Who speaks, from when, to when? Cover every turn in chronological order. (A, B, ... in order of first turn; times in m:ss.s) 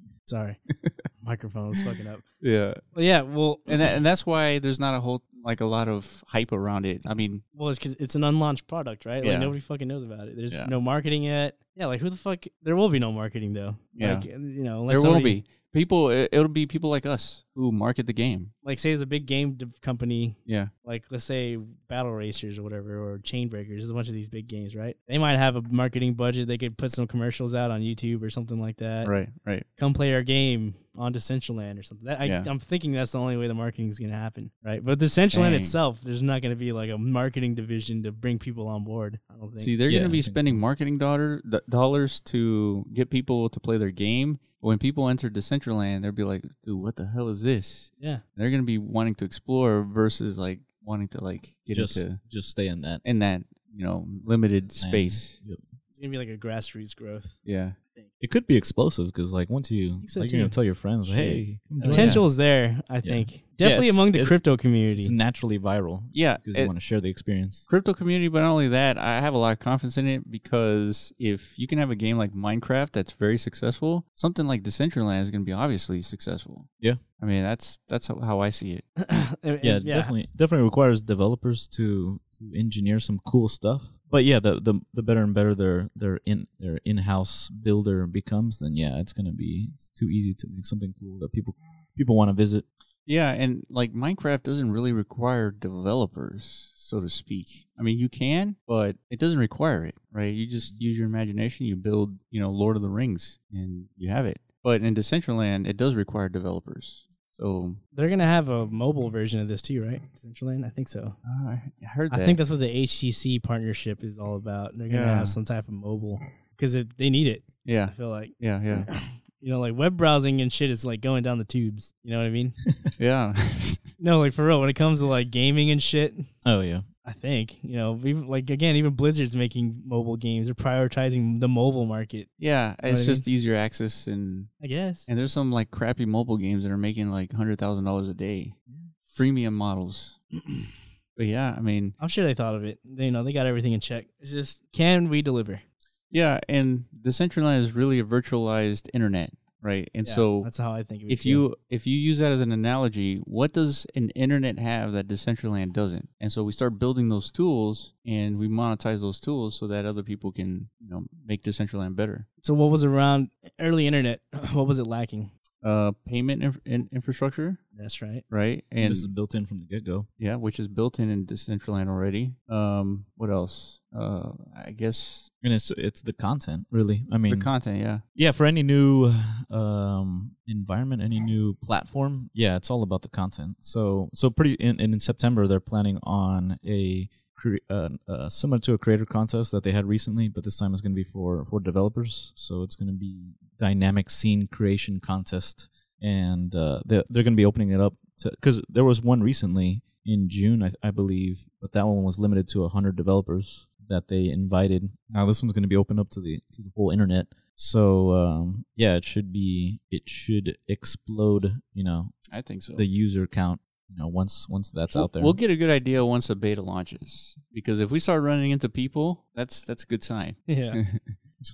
0:00.3-0:00.6 A
0:01.2-0:02.2 A
0:02.4-0:02.8 B
0:02.9-0:03.9 A
0:03.7-0:07.4 B
0:07.5-0:15.4 A
0:09.2-0:09.6 B
0:14.0-0:14.3 B
0:14.9-0:18.5 B
0:18.6-0:29.1 A
0:29.0-0:29.7 B
0:29.8-0:39.7 A
0:32.2-0:32.5 B
0:35.3-0:35.8 B
0:39.6-0:52.2 B
0:39.9-0:40.6 C
0:51.7-0:53.0 C
0:53.0-0:55.4 B
0:54.8-0:55.6 C
0:55.9-0:57.4 A
0:57.4-0:57.8 B
0:58.2-1:02.3 C
1:00.0-1:05.1 A
1:01.8-1:02.2 B
1:03.0-1:04.4 C
1:05.0-1:07.7 C
1:06.1-1:06.7 B
1:07.7-1:18.8 B
1:19.0-1:20.1 A
1:19.6-1:32.6 C
1:33.1-1:47.8 B
1:47.9-1:51.2 A
1:51.2-1:52.4 B
1:52.1-2:02.6 A
1:54.9-1:55.4 B
1:57.6-1:58.9 B
2:03.0-2:03.9 B
2:04.0-2:06.3 A
2:06.4-2:06.9 C
2:07.0-2:12.3 A
2:12.4-2:14.5 B
2:12.9-2:13.2 A
2:14.6-2:15.1 A
2:15.1-2:18.6 B
2:19.1-2:20.2 B
2:21.2-2:22.0 B
2:22.0-2:25.6 A
2:26.1-2:30.5 B
2:30.0-2:31.4 A
2:31.1-2:42.3 B
2:42.4-2:45.3 A
2:45.6-2:47.6 B
2:47.8-2:48.2 A
2:48.3-2:49.1 B
2:48.8-2:50.1 C
2:50.2-2:55.3 B
2:55.4-2:57.5 C
2:57.3-2:58.0 B
2:58.2-3:32.2 C
3:32.3-3:32.9 B
3:32.7-3:35.4 C
3:34.9-3:41.2 B
3:40.5-3:40.8 A